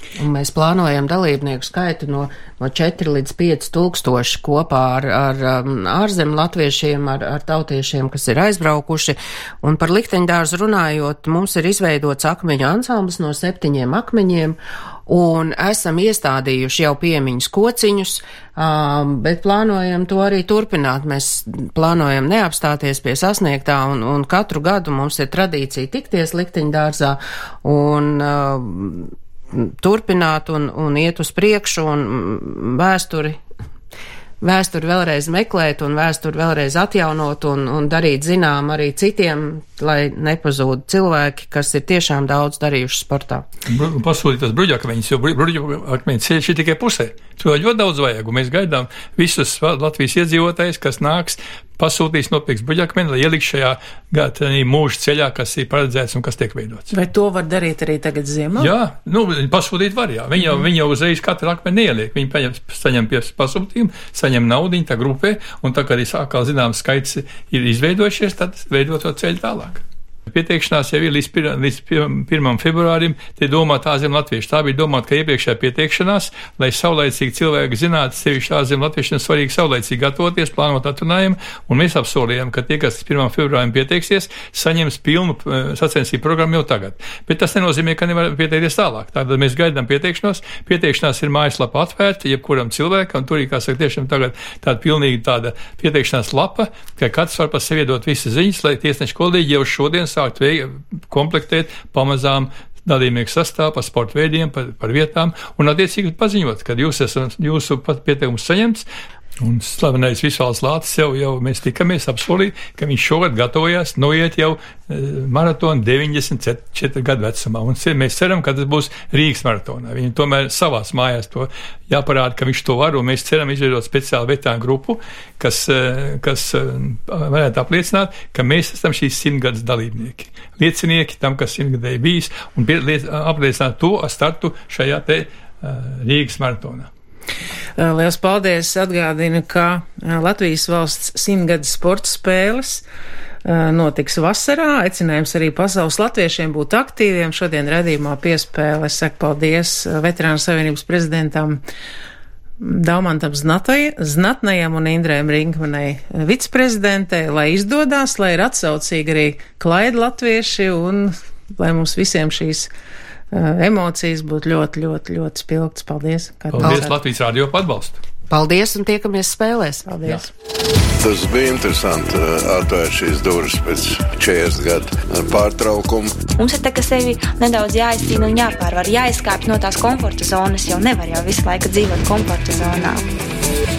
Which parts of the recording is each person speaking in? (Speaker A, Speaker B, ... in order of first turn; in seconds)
Speaker A: 0.2-33.4, 34.4-43.5, 168.3-170.1
Speaker B: 43.7-56.9, 58.6-108.8, 109.4-136.9, 166.5-168.0
Speaker C: 56.9-58.7, 137.8-142.8, 143.4-151.6, 152.6-162.7, 163.3-166.9, 169.9-170.3
Speaker D: 171.0-176.2
Speaker E: 176.4-183.0